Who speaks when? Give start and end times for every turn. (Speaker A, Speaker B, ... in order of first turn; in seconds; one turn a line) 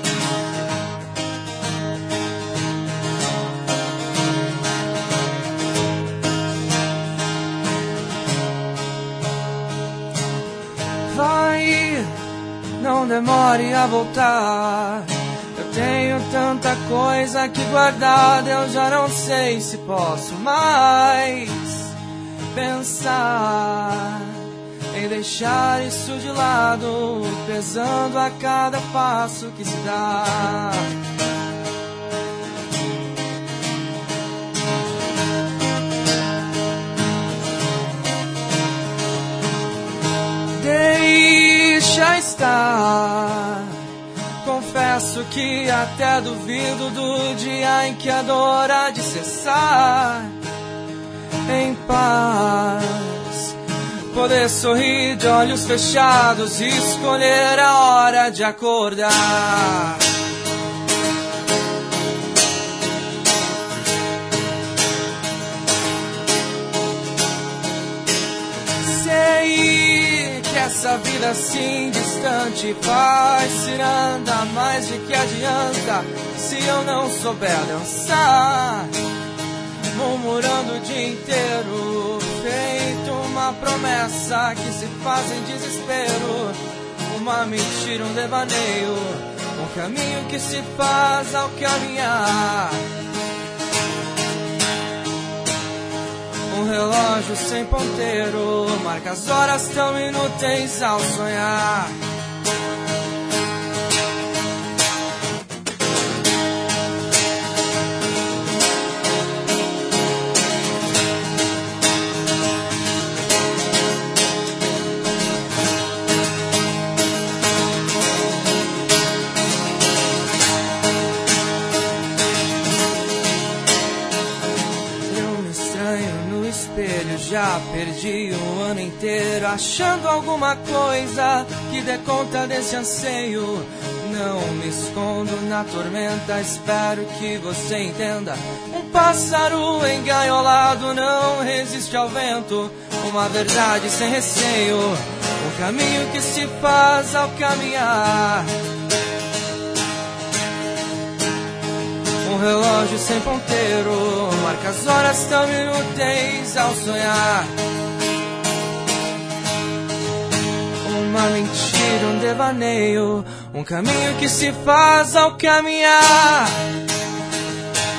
Speaker A: 11.1-12.2
Speaker A: 12.8-21.9
Speaker A: 22.5-30.9
Speaker A: 40.5-43.8
Speaker A: 44.4-50.4
Speaker A: 51.5-53.6
Speaker A: 54.1-60.0
Speaker A: 68.8-78.9
Speaker A: 79.9-92.8
Speaker A: 96.5-102.0
Speaker A: 125.1-148.5
Speaker A: 152.2-157.6
Speaker A: 160.8-166.7